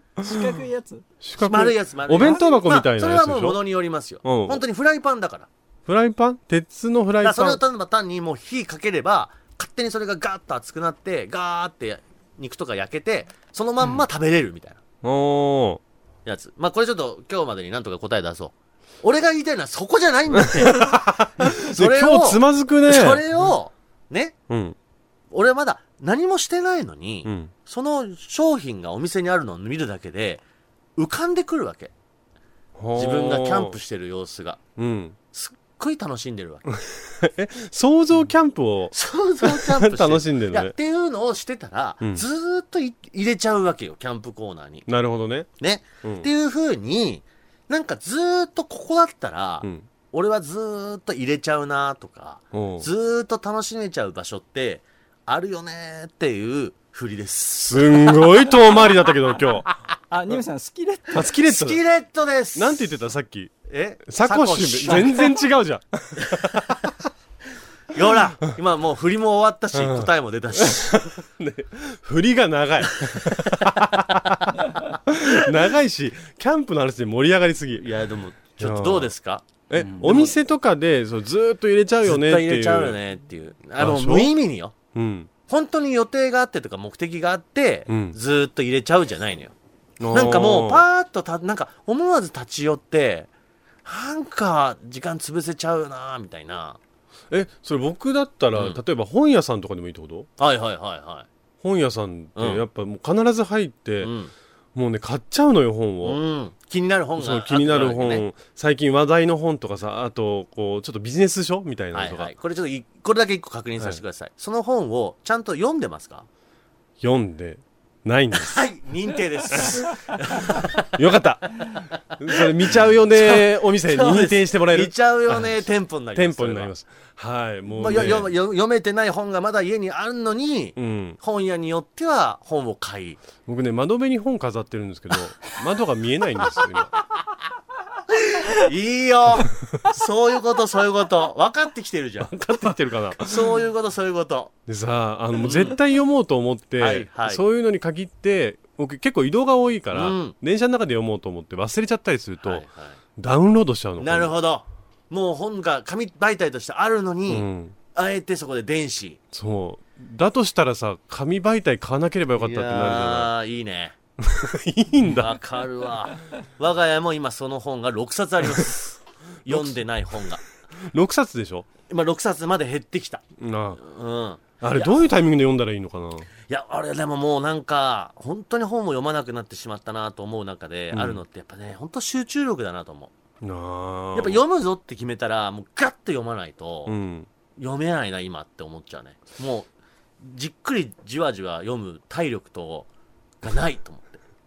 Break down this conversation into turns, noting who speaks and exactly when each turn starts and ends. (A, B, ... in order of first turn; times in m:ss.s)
0:00.2-0:00.6 A
0:00.2-0:01.1 B
0:01.2-0:03.6 A
0:01.4-0:05.5 C
0:04.2-0:04.6 A
0:05.9-0:07.6 A
0:07.2-0:14.8 C
0:15.0-0:15.8 A
0:16.2-0:24.4 C
0:20.4-0:23.2 A
0:24.5-0:24.8 A
0:25.3-0:30.4 C
0:27.2-0:27.5 A
0:31.0-0:31.9 C
0:32.8-0:33.8 A
0:33.0-0:34.6 C
0:34.8-0:35.2 A
0:35.3-0:36.8 C
0:36.9-0:40.7 A
0:38.9-0:44.9 C
0:44.9-0:45.5 A
0:45.6-0:58.5 C
0:52.5-0:52.9 A
0:57.6-0:59.6 A
1:00.1-1:01.3 B
1:01.1-1:01.8 A
1:01.4-1:02.9 C
1:02.5-1:03.5 A
1:03.7-1:05.4 C
1:04.1-1:07.0 A
1:06.2-1:06.6 C
1:07.9-1:11.1 C
1:09.7-1:17.9 A
1:13.0-1:14.6 C
1:17.8-1:20.3 C
1:18.6-1:19.1 A
1:19.7-1:23.0 A
1:22.0-1:24.8 C
1:23.8-1:24.3 A
1:24.9-1:25.3 A
1:25.5-1:29.5 C
1:27.9-1:28.2 A
1:30.0-1:30.8 A
1:30.1-1:33.3 C
1:33.8-1:36.8 C
1:37.3-1:40.3 A
1:38.5-1:38.8 C
1:40.4-1:41.3 C
1:41.6-1:44.1 A
1:42.4-1:42.6 C
1:44.0-1:44.3 C
1:44.8-1:46.2 A
1:46.0-1:48.2 C
1:47.2-1:52.3 A
1:51.9-1:56.2 C
1:57.0-1:58.6 A
1:58.3-2:00.9 C
1:59.5-1:59.8 A
2:00.9-2:05.6 A
2:02.3-2:06.7 C
2:06.1-2:08.3 A
2:07.7-2:13.2 C
2:10.8-2:11.2 A
2:13.4-2:16.9 A
2:18.1-2:24.5 C
2:22.2-2:23.6 A
2:24.7-2:32.6 A
2:25.4-2:25.8 C
2:26.8-2:27.4 C
2:29.9-2:30.4 C
2:32.4-2:33.0 C
2:33.2-2:34.3 A
2:34.0-2:39.2 C
2:37.3-2:37.8 A
2:39.3-2:43.3 A
2:42.4-2:44.0 C
2:44.2-2:45.4 A
2:45.2-2:50.4 C
2:49.5-2:51.7 A
2:51.9-2:53.2 C
2:53.4-2:53.8 A
2:53.8-2:55.1 C
2:54.6-2:56.3 A
2:56.5-3:03.1 C
3:00.9-3:01.2 A
3:03.4-3:04.4 A
3:04.1-3:07.0 C
3:06.9-3:07.3 A
3:07.6-3:09.7 C
3:10.2-3:12.9 C
3:13.4-3:14.2 C